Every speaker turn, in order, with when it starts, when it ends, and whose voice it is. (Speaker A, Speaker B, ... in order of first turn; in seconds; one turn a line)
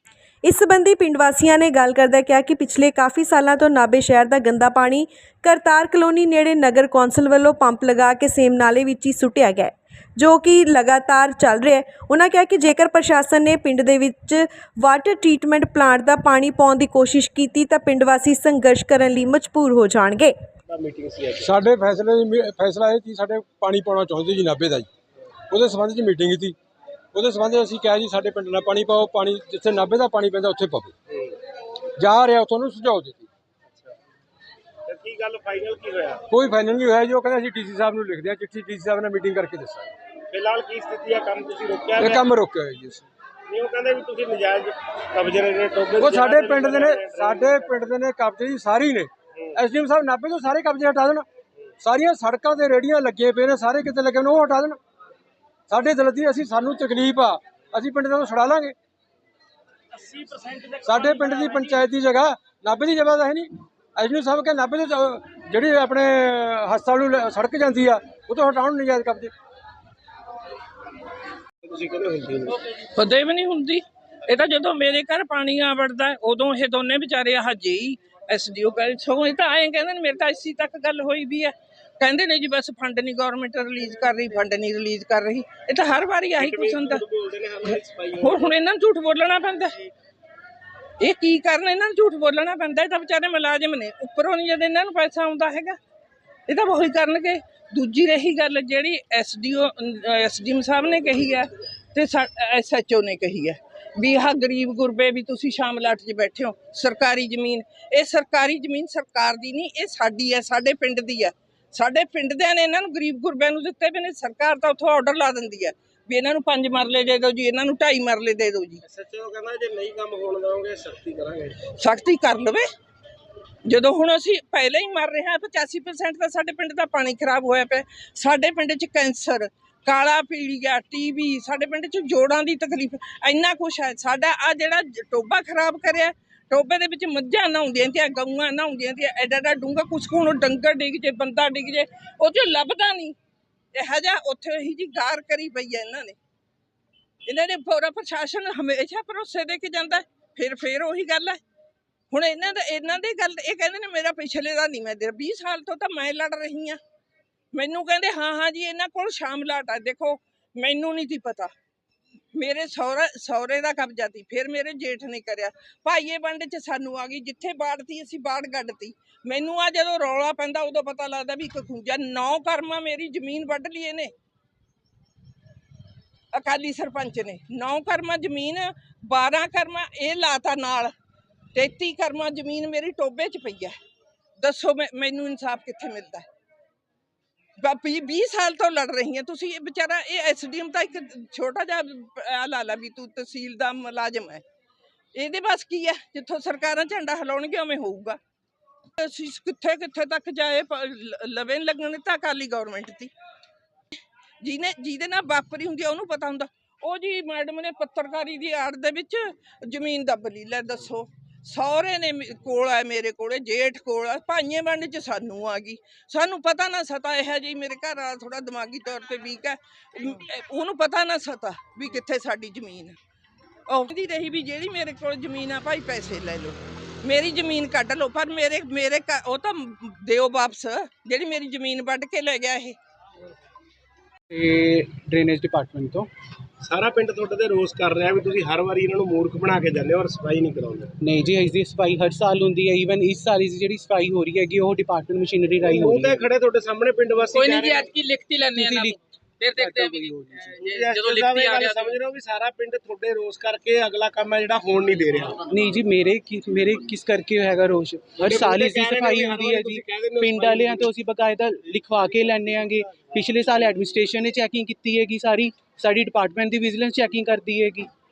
Speaker A: 0.4-20.3
Speaker B: 20.7-21.6
Speaker C: 21.4-24.9
Speaker C: 25.5-26.6
Speaker C: 27.1-30.9
Speaker B: 31.1-31.4
Speaker C: 32.0-33.3
Speaker B: 33.7-33.9
Speaker B: 34.9-36.2
Speaker C: 36.3-39.9
Speaker B: 40.3-42.3
Speaker C: 42.0-43.1
Speaker B: 43.5-47.9
Speaker C: 46.0-51.3
Speaker B: 49.3-49.6
Speaker C: 51.8-54.8
Speaker C: 55.7-58.8
Speaker B: 59.9-61.9
Speaker C: 60.8-69.3
Speaker B: 71.6-72.5
Speaker D: 72.9-87.0
Speaker B: 86.4-88.5
Speaker D: 88.2-89.8
Speaker D: 91.0-95.8
Speaker D: 96.5-118.8
Speaker B: 118.8-121.6
Speaker D: 121.8-122.6
Speaker D: 123.7-143.1
Speaker D: 143.7-146.2
Speaker D: 147.2-151.4
Speaker D: 152.1-156.8
Speaker D: 157.5-161.5
Speaker D: 162.3-174.1
Speaker D: 176.3-180.9
Speaker D: 181.5-183.7
Speaker D: 184.4-186.2
Speaker D: 187.6-194.4
Speaker D: 195.1-198.2
Speaker D: 199.0-203.1
Speaker D: 204.4-223.0
Speaker D: 223.7-232.8
Speaker E: 234.3-236.1
Speaker B: 236.6-240.9
Speaker E: 241.0-246.3
Speaker B: 245.7-247.9
Speaker F: 247.3-252.0
Speaker E: 248.6-249.0
Speaker E: 249.6-250.5
Speaker B: 250.6-255.4
Speaker E: 255.4-267.9
Speaker B: 258.2-260.9